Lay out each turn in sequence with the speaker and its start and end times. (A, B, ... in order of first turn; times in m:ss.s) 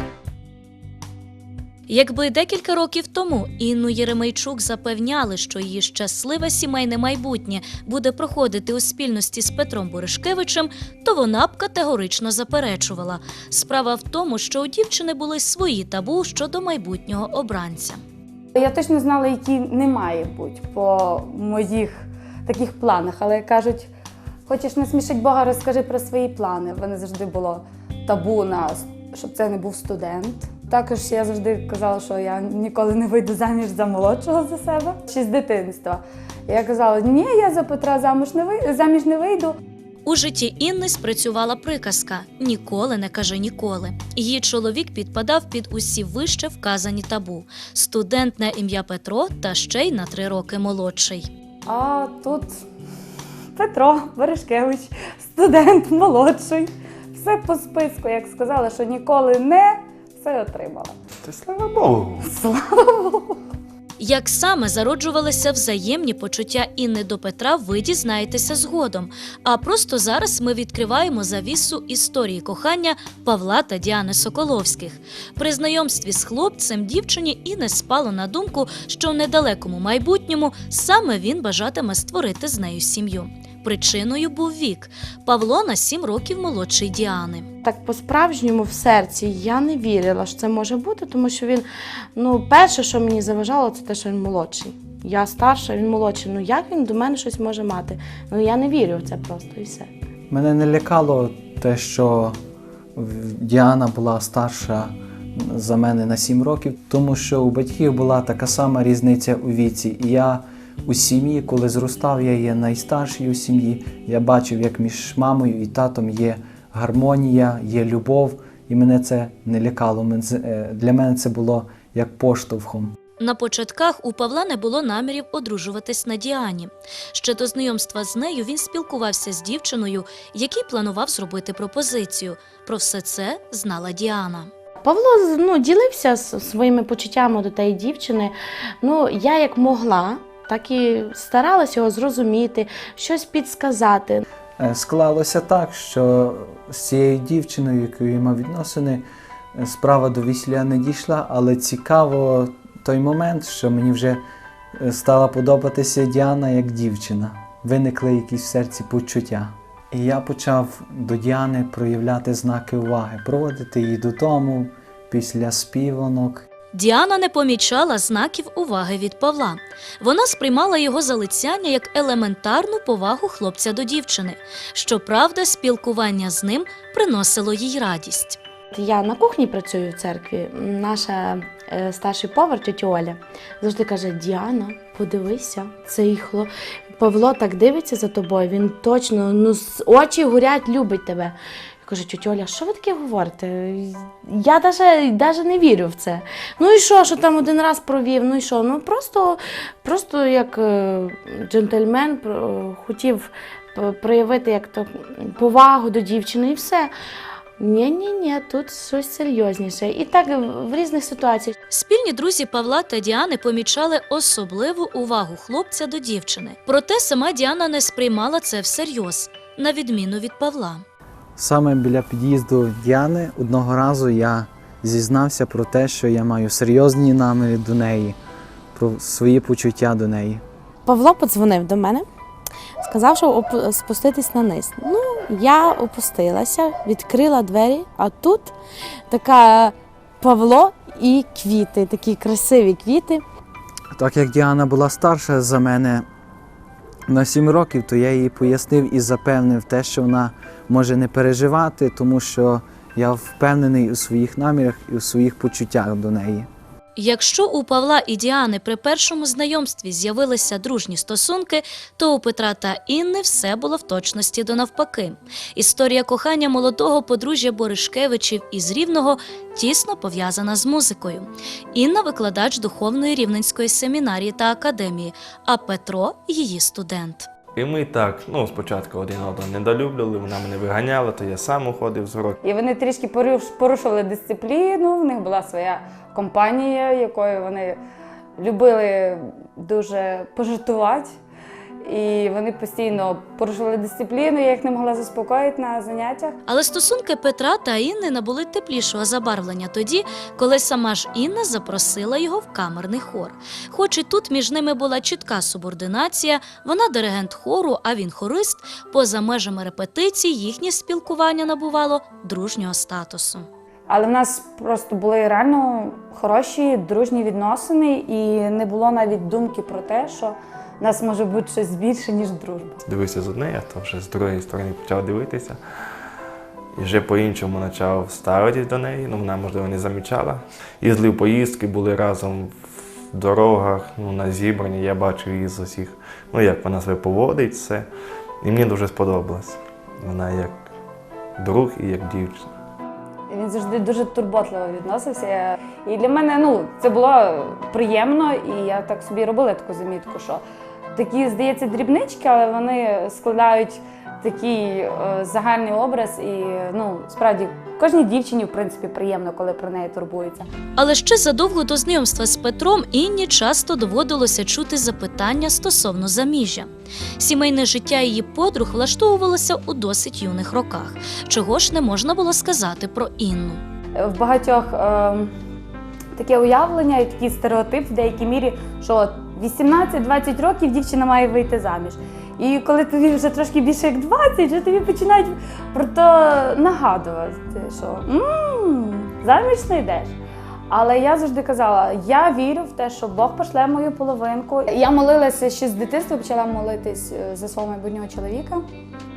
0:01.9-0:18.0 A
0:18.5-0:23.9 B
0:24.5-0:39.5 B
0:40.0-0:51.3 A
0:51.7-0:52.6 B
0:53.6-1:00.9 B
1:01.2-1:02.3 C
1:02.2-1:03.4 B
1:04.0-1:27.5 A
1:27.6-1:39.9 D
1:40.3-1:42.4 E
1:43.0-2:03.0 E
2:03.2-2:14.5 A
2:14.8-2:24.2 D
2:24.6-2:34.2 E
2:34.8-2:46.4 E
2:46.7-2:58.4 A
2:58.7-3:26.9 D
3:27.6-3:31.5 D
3:31.7-3:40.8 A
3:41.4-3:48.2 E
3:48.7-3:50.4 E
3:50.8-3:52.1 D
3:52.8-3:58.5 D
3:59.1-4:03.2 D
4:03.9-4:06.0 E
4:07.1-4:16.5 E
4:17.0-4:37.3 A
4:37.6-4:42.4 C
4:42.4-4:47.8 B
4:48.4-4:51.1 B
4:51.8-4:56.4 B
4:56.5-5:13.5 A
5:13.9-5:22.8 B
5:22.8-5:25.6 C
5:26.8-5:37.9 C
5:38.4-5:40.6 C
5:41.4-5:42.5 C
5:43.3-5:50.4 B
5:50.9-6:00.5 B
6:00.8-6:13.6 A
6:14.0-6:15.3 B
6:16.2-6:30.1 B
6:30.7-6:38.6 B